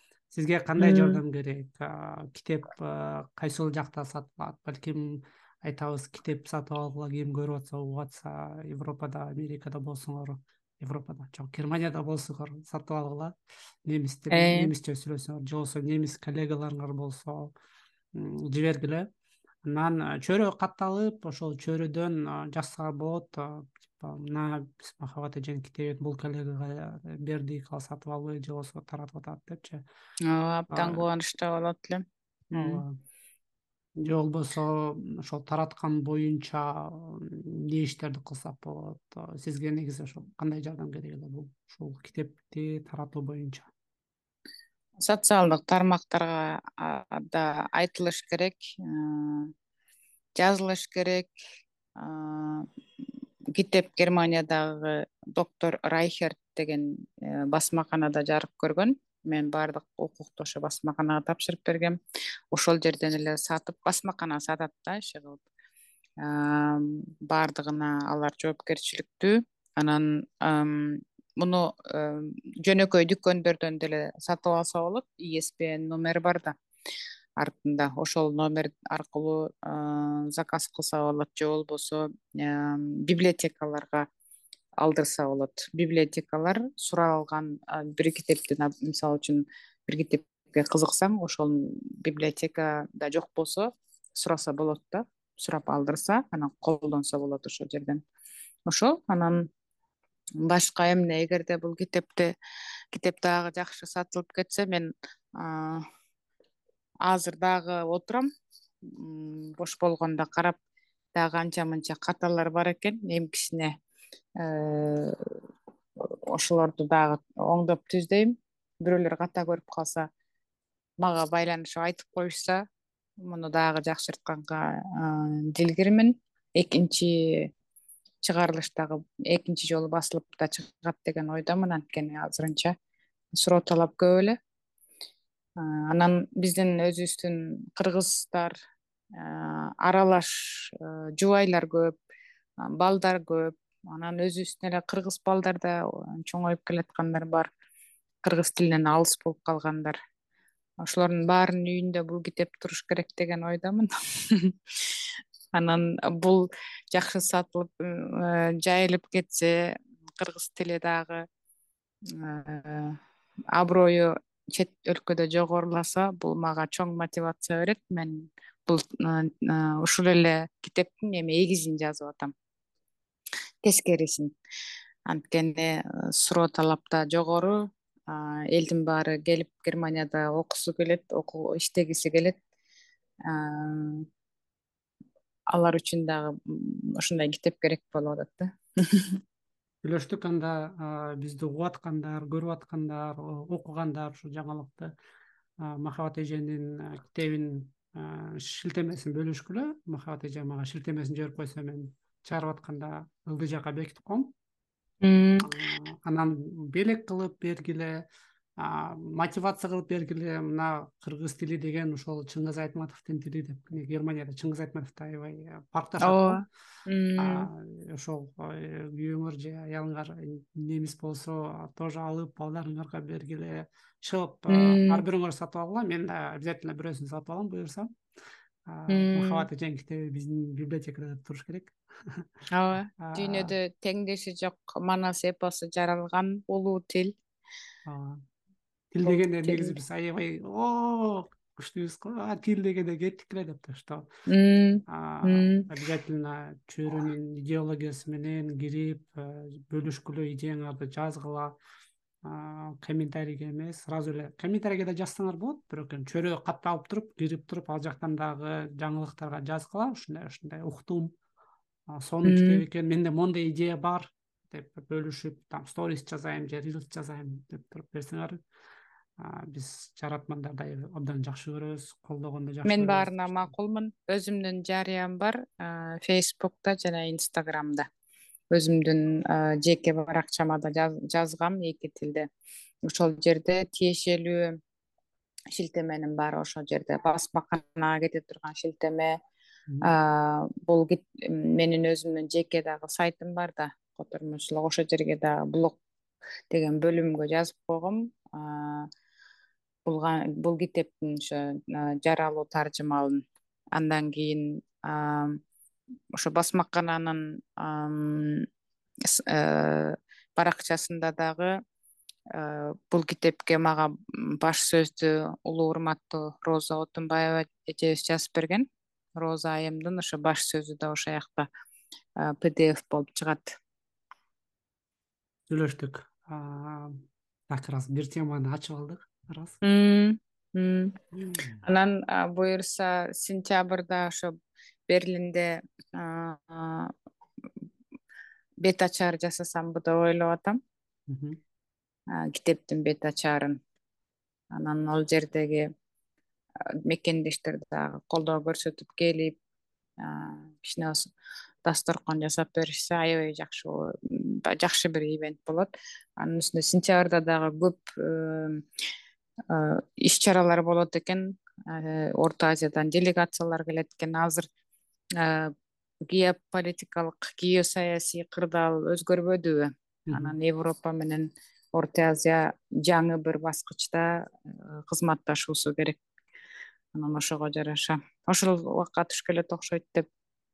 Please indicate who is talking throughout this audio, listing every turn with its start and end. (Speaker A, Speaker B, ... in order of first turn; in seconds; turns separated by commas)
Speaker A: 0.3-13.3, Speaker B: 0.8-1.2, Speaker A: 13.9-17.5, Speaker B: 14.3-14.7, Speaker A: 18.1-19.1, Speaker A: 19.6-29.8, Speaker B: 30.3-32.8, Speaker A: 30.7-31.0, Speaker A: 32.6-33.0, Speaker A: 34.0-43.7, Speaker B: 45.0-49.5, Speaker B: 50.4-51.3, Speaker B: 52.0-52.7, Speaker B: 53.5-62.0, Speaker B: 62.5-65.4, Speaker B: 66.2-76.5, Speaker B: 77.4-84.1, Speaker B: 84.8-98.0, Speaker B: 98.7-99.5, Speaker B: 100.4-102.3, Speaker B: 102.9-105.8, Speaker B: 107.0-108.3, Speaker B: 108.9-110.6, Speaker B: 111.2-113.7, Speaker B: 114.4-115.2, Speaker B: 116.0-120.1, Speaker B: 121.0-122.6, Speaker B: 123.2-127.5, Speaker B: 128.2-132.7, Speaker B: 133.4-134.4, Speaker B: 135.6-138.5, Speaker B: 139.2-141.9, Speaker B: 142.7-147.5, Speaker B: 148.2-150.0, Speaker B: 150.8-155.0, Speaker B: 155.6-161.2, Speaker B: 162.1-163.0, Speaker B: 163.6-172.3, Speaker B: 173.6-174.3, Speaker B: 175.1-182.4, Speaker B: 183.3-184.1, Speaker B: 185.5-189.2, Speaker A: 189.8-194.9, Speaker A: 195.6-204.3, Speaker B: 205.0-205.5, Speaker A: 205.4-208.0, Speaker A: 208.6-216.4, Speaker B: 216.0-217.5, Speaker A: 217.2-227.9, Speaker B: 224.5-225.0, Speaker A: 228.7-232.3, Speaker B: 228.9-229.5, Speaker B: 232.5-237.1, Speaker A: 233.0-233.5, Speaker A: 237.9-238.2, Speaker A: 238.9-244.1, Speaker B: 239.1-239.8, Speaker B: 244.3-245.7, Speaker A: 244.9-251.5, Speaker A: 252.2-261.1, Speaker A: 261.9-268.4, Speaker B: 262.2-262.6, Speaker A: 269.2-273.5, Speaker B: 272.6-277.9, Speaker B: 278.5-282.3, Speaker B: 282.9-284.6, Speaker B: 285.5-289.1, Speaker B: 289.8-295.8, Speaker B: 296.5-298.9, Speaker B: 299.9-303.2, Speaker B: 303.8-305.4, Speaker B: 306.2-308.5, Speaker B: 309.1-311.5, Speaker B: 312.4-318.7, Speaker B: 319.2-321.5, Speaker B: 322.2-323.6, Speaker A: 325.5-329.6, Speaker B: 329.6-331.0, Speaker A: 331.1-331.6, Speaker B: 331.6-334.3, Speaker B: 334.9-336.9, Speaker B: 338.6-340.6, Speaker A: 341.1-341.4, Speaker B: 342.1-343.6, Speaker B: 344.5-345.7, Speaker B: 346.9-349.4, Speaker B: 350.0-351.1, Speaker B: 351.6-358.6, Speaker B: 359.5-364.5, Speaker B: 365.2-365.5, Speaker B: 366.1-376.0, Speaker A: 370.1-370.4, Speaker B: 376.9-380.1